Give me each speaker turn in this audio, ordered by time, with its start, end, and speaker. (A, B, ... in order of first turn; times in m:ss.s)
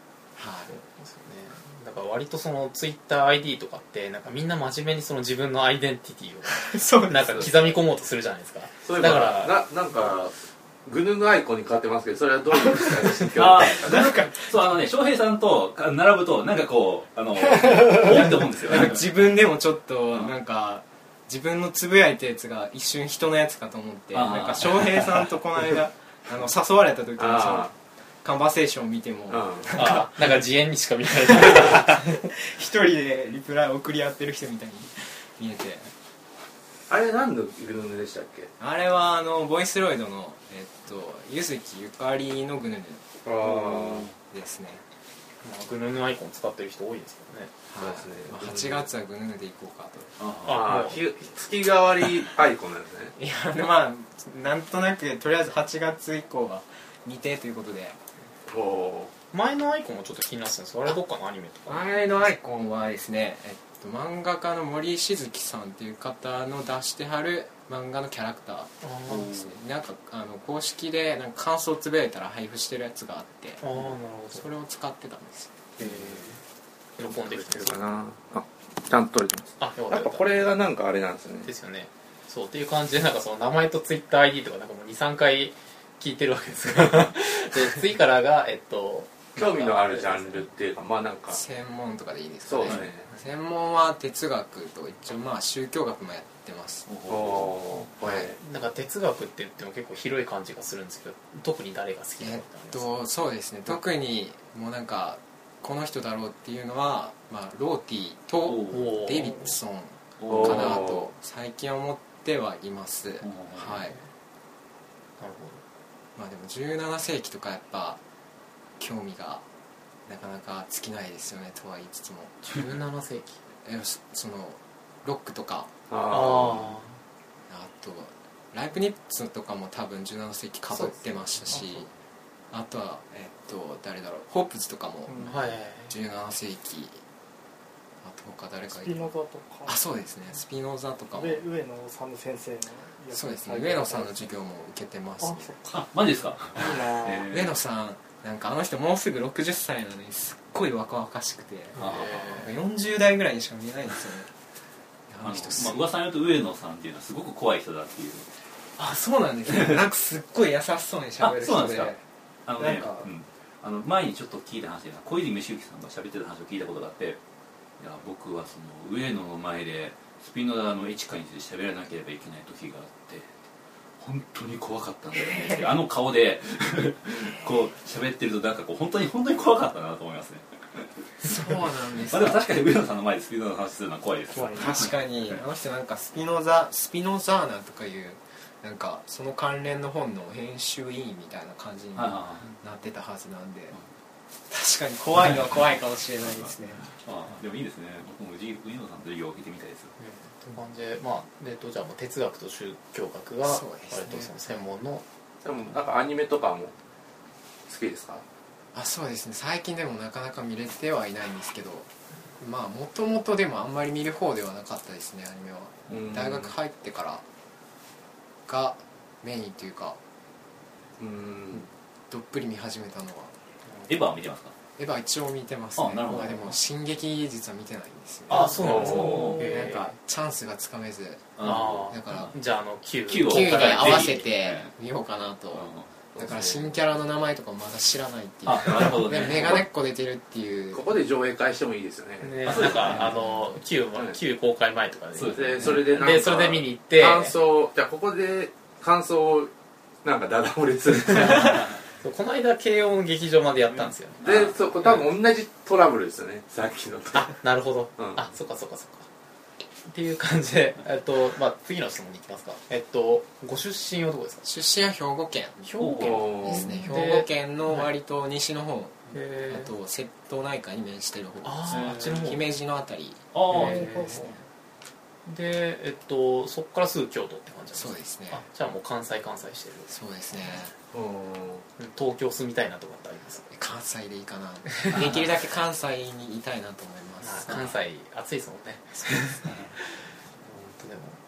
0:00.4-0:00.7 A
0:00.7-0:09.6 B
0:06.5-0:07.7 A
0:08.8-0:14.1 C
0:13.3-0:19.0 D
0:13.8-0:14.7 A
0:18.0-0:30.3 A
0:24.1-0:25.3 D
0:27.2-0:27.7 C
0:29.3-0:29.8 C
0:29.8-0:32.2 B
0:31.3-0:35.9 A
0:36.9-0:38.5 C
0:38.6-0:44.8 A
0:43.2-0:44.1 C
0:45.4-0:47.5 B
0:47.7-0:50.2 A
0:47.8-0:48.9 C
0:50.2-0:50.7 D
0:50.4-0:51.1 B
0:50.5-0:53.1 C
0:53.2-0:58.0 A
0:58.5-0:59.1 C
0:59.3-1:02.0 B
1:01.7-1:13.6 A
1:08.8-1:09.3 B
1:09.2-1:09.5 D
1:13.6-1:14.4 B
1:14.3-1:15.5 A
1:15.8-1:16.4 B
1:15.8-1:16.3 C
1:17.0-1:17.8 B
1:17.0-1:21.5 C
1:19.6-1:20.5 B
1:21.4-1:30.5 B
1:29.3-1:31.4 C
1:31.3-1:36.9 A
1:32.4-1:33.1 C
1:32.6-1:32.9 D
1:36.8-1:37.6 D
1:37.1-1:38.4 C
1:38.0-1:38.3 A
1:38.3-1:42.9 B
1:42.2-1:54.0 A
1:48.5-1:48.8 D
1:48.7-1:49.6 B
1:50.2-1:50.9 D
1:50.3-1:51.1 C
1:53.2-1:53.8 D
1:55.2-1:55.6 B
1:56.2-1:58.0 A
1:58.8-1:59.4 A
2:00.1-2:02.7 A
2:02.4-2:03.4 B
2:03.6-2:05.7 A
2:05.9-2:06.7 C
2:06.1-2:07.0 B
2:07.5-2:11.9 A
2:10.7-2:11.3 B
2:11.5-2:11.8 E
2:12.5-2:17.0 A
2:15.1-2:15.3 E
2:15.2-2:16.0 B
2:18.0-2:19.1 A
2:18.7-2:19.8 E
2:19.6-2:21.5 A
2:21.1-2:24.3 E
2:23.1-2:25.5 A
2:25.2-2:25.9 E
2:25.7-2:27.6 D
2:26.5-2:27.3 E
2:27.3-2:34.3 A
2:31.8-2:32.4 D
2:31.8-2:32.5 B
2:35.1-2:35.9 A
2:35.2-2:38.3 D
2:38.8-2:42.0 A
2:39.5-2:39.8 D
2:41.2-2:41.9 D
2:42.5-2:47.2 D
2:42.6-2:43.1 A
2:47.8-2:53.3 D
2:54.0-3:04.9 D
2:55.2-2:55.7 A
2:57.2-2:57.5 A
3:01.2-3:02.4 A
3:04.3-3:04.7 E
3:04.5-3:13.8 A
3:12.0-3:12.5 D
3:14.5-3:16.9 A
3:16.8-3:19.9 D
3:20.0-3:25.0 B
3:23.4-3:24.4 A
3:25.4-3:26.7 C
3:27.7-3:28.2 C
3:28.7-3:37.2 A
3:35.9-3:36.5 C
3:38.5-3:40.0 A
3:41.0-3:41.7 C
3:41.5-3:43.4 A
3:43.9-3:44.5 D
3:44.8-3:52.4 A
3:45.8-3:46.6 D
3:48.3-3:49.9 B
3:48.3-3:49.5 D
3:48.5-3:49.4 C
3:51.4-3:52.3 D
3:51.4-3:54.2 B
3:53.1-3:54.7 D
3:53.2-4:01.0 A
3:55.5-3:55.9 D
3:56.1-3:56.9 C
3:58.5-3:59.6 D
3:59.2-3:59.6 C
4:00.7-4:03.0 C
4:02.2-4:07.4 B
4:02.4-4:03.2 D
4:02.9-4:03.5 A
4:05.2-4:05.8 D
4:05.2-4:09.5 C
4:10.0-4:11.6 C
4:11.1-4:14.2 B
4:11.4-4:11.7 D
4:14.2-4:14.6 D
4:14.2-4:17.4 C
4:17.2-4:19.1 B
4:18.0-4:18.2 C
4:19.8-4:24.5 B
4:24.4-4:25.7 A
4:25.6-4:27.9 B
4:25.8-4:26.3 D
4:26.0-4:26.8 C
4:26.2-4:33.2 A
4:29.1-4:29.7 B
4:31.4-4:32.4 B
4:33.3-4:33.8 D
4:33.5-4:34.4 E
4:33.5-4:34.3 B
4:35.2-4:39.9 B
4:37.7-4:38.4 A
4:39.9-4:40.8 A
4:40.9-4:41.6 C
4:41.8-4:43.5 B
4:43.5-4:47.8 A
4:47.2-4:51.2 B